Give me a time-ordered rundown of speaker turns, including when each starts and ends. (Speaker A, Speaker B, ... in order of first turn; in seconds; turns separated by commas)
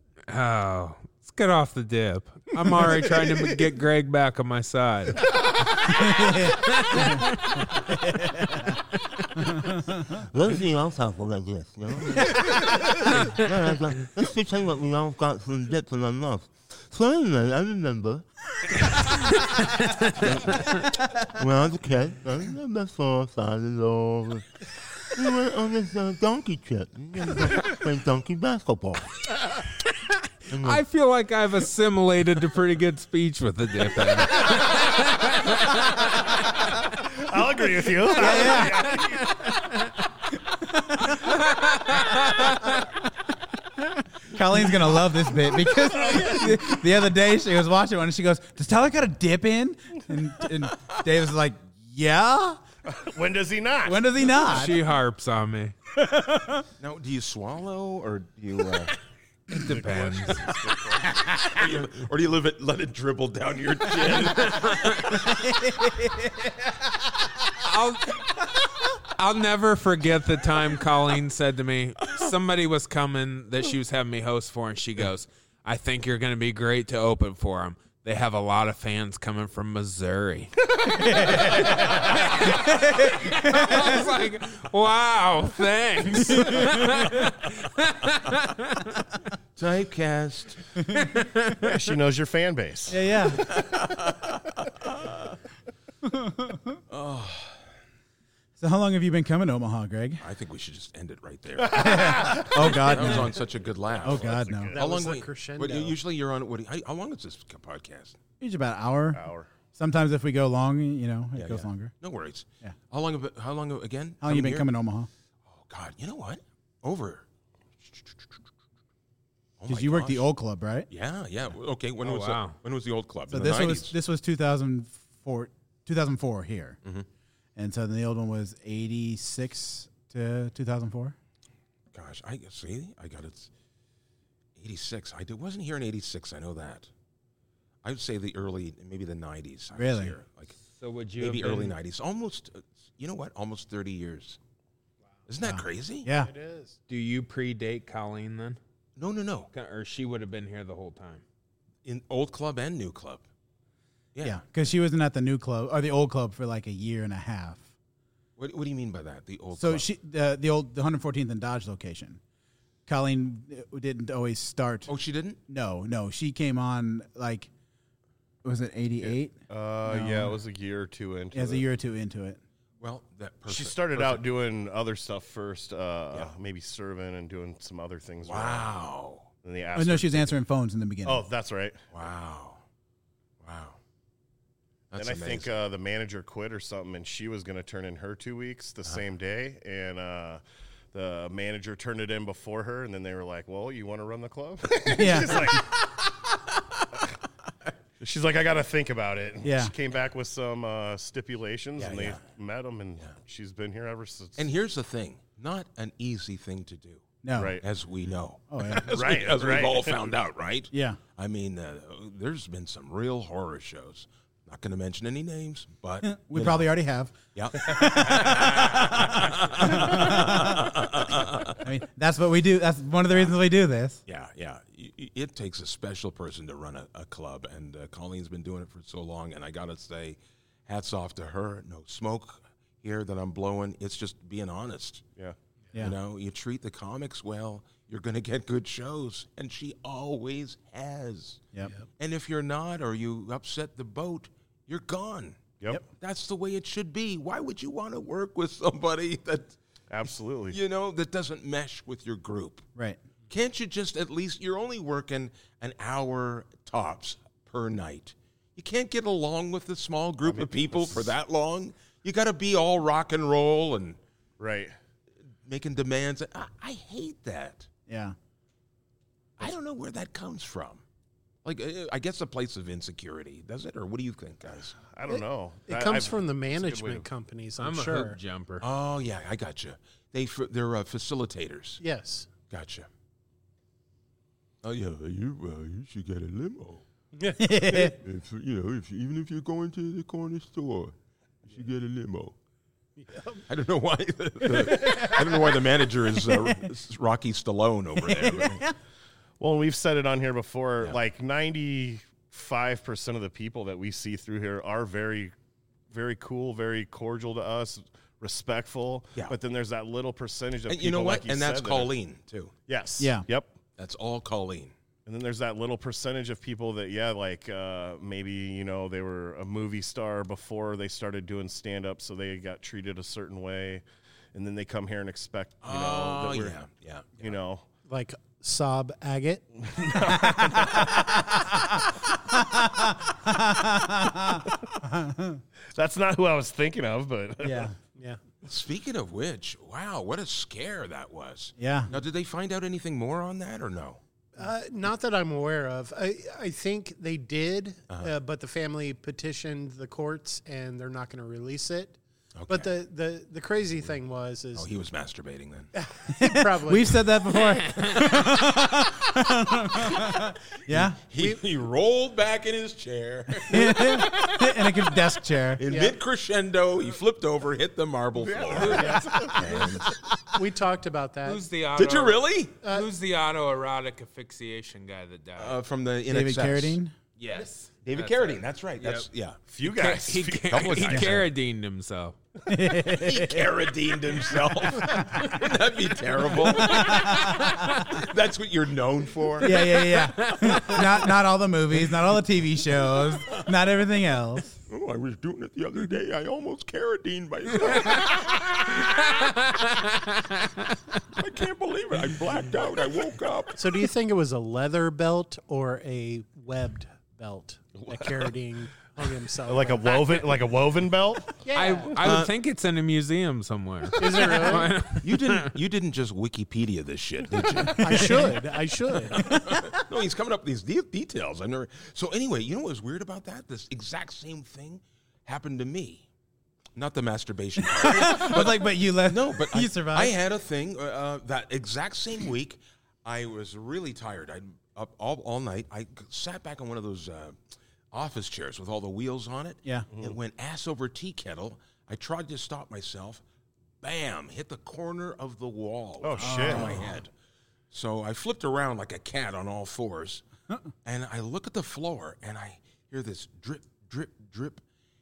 Speaker A: 0.3-7.7, Speaker B: 5.8-8.8, Speaker B: 9.5-10.2, Speaker C: 10.1-18.2, Speaker C: 20.1-24.5, Speaker C: 25.1-29.1, Speaker C: 30.5-30.8, Speaker A: 30.5-36.5, Speaker D: 36.8-39.4, Speaker B: 38.1-39.0, Speaker A: 39.3-39.9, Speaker B: 40.6-41.2, Speaker A: 41.1-42.9, Speaker B: 44.2-52.6, Speaker D: 46.2-46.5, Speaker D: 52.9-54.1, Speaker B: 53.8-54.8, Speaker A: 54.4-55.7, Speaker B: 55.9-56.6, Speaker E: 56.8-58.9, Speaker A: 59.5-60.5, Speaker D: 59.5-61.2, Speaker E: 61.1-65.4, Speaker A: 64.3-65.2, Speaker B: 65.2-66.5, Speaker A: 67.5-80.7, Speaker B: 80.8-83.9, Speaker A: 81.3-89.0, Speaker B: 86.4-86.8, Speaker E: 89.5-90.6, Speaker A: 90.9-91.7, Speaker D: 91.6-93.6, Speaker B: 92.9-93.5, Speaker E: 93.3-95.3, Speaker B: 96.0-96.6, Speaker E: 96.9-97.6, Speaker B: 98.6-100.2, Speaker E: 100.2-108.2, Speaker B: 101.7-103.3, Speaker D: 101.7-102.5, Speaker D: 104.0-104.8, Speaker B: 104.0-104.7, Speaker F: 104.7-105.9, Speaker B: 108.4-111.9, Speaker D: 109.1-109.5, Speaker E: 111.3-114.7, Speaker B: 114.2-115.1, Speaker E: 115.5-117.2, Speaker E: 117.8-118.4, Speaker E: 119.6-120.3, Speaker B: 119.7-120.9, Speaker E: 120.9-124.0, Speaker A: 122.0-122.6, Speaker B: 123.3-126.8, Speaker B: 127.5-131.2, Speaker E: 131.9-133.5, Speaker E: 134.6-136.9, Speaker E: 137.8-140.6, Speaker B: 139.7-140.2, Speaker A: 140.7-141.8, Speaker E: 141.2-144.4, Speaker E: 145.3-146.1, Speaker B: 145.4-146.3, Speaker F: 146.1-146.8, Speaker A: 146.9-148.6, Speaker E: 149.0-149.5, Speaker A: 149.5-151.2, Speaker E: 151.8-153.2, Speaker E: 154.1-154.4, Speaker B: 154.2-157.7, Speaker E: 158.4-159.9, Speaker B: 159.5-162.2, Speaker B: 162.9-164.9, Speaker E: 164.9-165.4, Speaker B: 165.5-167.5, Speaker B: 168.4-170.4, Speaker D: 169.0-171.7, Speaker B: 171.3-172.4, Speaker E: 172.8-174.3, Speaker D: 173.5-178.7, Speaker E: 178.2-179.3, Speaker D: 179.4-180.3, Speaker B: 179.7-181.3, Speaker D: 181.0-181.8, Speaker E: 181.9-182.6, Speaker E: 183.4-183.8, Speaker E: 184.9-185.5, Speaker D: 184.9-195.8, Speaker B: 194.9-195.6, Speaker D: 198.0-204.5, Speaker B: 199.4-199.7, Speaker E: 201.8-202.2, Speaker E: 204.4-216.7, Speaker B: 207.2-207.6, Speaker D: 207.3-207.6, Speaker B: 208.5-208.9, Speaker D: 208.9-210.1, Speaker B: 210.7-211.0, Speaker B: 216.0-220.7, Speaker E: 217.3-221.7, Speaker B: 221.6-224.0, Speaker E: 223.1-223.4, Speaker E: 224.1-235.0, Speaker E: 235.7-245.4, Speaker E: 245.9-249.6, Speaker D: 249.9-250.6, Speaker E: 250.5-252.7, Speaker E: 253.3-264.0, Speaker D: 260.2-261.1, Speaker D: 264.4-264.7, Speaker E: 265.4-267.7, Speaker B: 267.9-268.1, Speaker E: 269.4-270.8, Speaker E: 271.4-274.8, Speaker D: 274.9-277.0, Speaker F: 275.1-278.2, Speaker A: 277.6-278.6, Speaker E: 278.6-281.8, Speaker F: 281.8-282.3, Speaker E: 282.5-282.9, Speaker E: 284.6-286.8, Speaker F: 287.2-287.5, Speaker B: 287.4-287.9, Speaker E: 287.6-292.3, Speaker F: 293.0-293.4, Speaker E: 293.5-298.6, Speaker B: 298.1-298.7, Speaker D: 299.4-305.3, Speaker D: 305.9-311.9, Speaker E: 310.7-312.5, Speaker D: 312.7-313.5, Speaker B: 313.0-313.2, Speaker E: 313.8-314.7, Speaker D: 315.1-323.8, Speaker D: 324.3-326.6, Speaker E: 325.6-327.4, Speaker D: 327.2-327.6, Speaker F: 327.9-329.4, Speaker D: 329.6-331.3, Speaker B: 331.2-331.8, Speaker B: 332.3-335.4, Speaker D: 335.7-337.7, Speaker B: 337.4-337.7, Speaker E: 338.4-344.0, Speaker B: 341.6-341.9, Speaker F: 344.4-352.0, Speaker E: 352.4-352.7, Speaker F: 352.5-354.7, Speaker E: 354.5-355.7, Speaker F: 355.8-357.0, Speaker B: 356.1-361.0, Speaker A: 357.5-358.2, Speaker E: 360.7-364.8, Speaker B: 363.3-365.6, Speaker E: 365.6-370.0, Speaker F: 365.7-365.9, Speaker D: 368.4-369.5, Speaker A: 368.4-369.3, Speaker F: 370.3-371.4, Speaker A: 371.2-375.6, Speaker E: 371.8-372.6, Speaker E: 375.4-376.8, Speaker B: 376.1-376.9, Speaker A: 377.2-379.1, Speaker E: 377.8-379.4, Speaker D: 379.5-381.2, Speaker A: 379.6-382.1, Speaker E: 380.5-381.3, Speaker B: 382.5-383.5, Speaker E: 382.9-390.8, Speaker B: 386.4-387.6, Speaker B: 389.4-394.6, Speaker A: 389.6-390.8, Speaker E: 394.7-399.3, Speaker A: 398.8-400.7, Speaker E: 401.1-403.6, Speaker F: 403.6-410.1, Speaker D: 409.5-411.4, Speaker F: 411.4-411.9, Speaker A: 411.5-415.5, Speaker E: 412.0-412.3, Speaker F: 413.9-414.8, Speaker E: 415.0-418.3, Speaker B: 417.8-418.5, Speaker F: 417.8-419.3, Speaker E: 419.1-426.1, Speaker B: 419.1-419.8, Speaker E: 426.8-443.2, Speaker B: 427.6-430.1, Speaker E: 443.8-447.1, Speaker D: 446.0-446.8, Speaker B: 446.2-447.0, Speaker E: 447.7-450.2, Speaker E: 450.8-454.6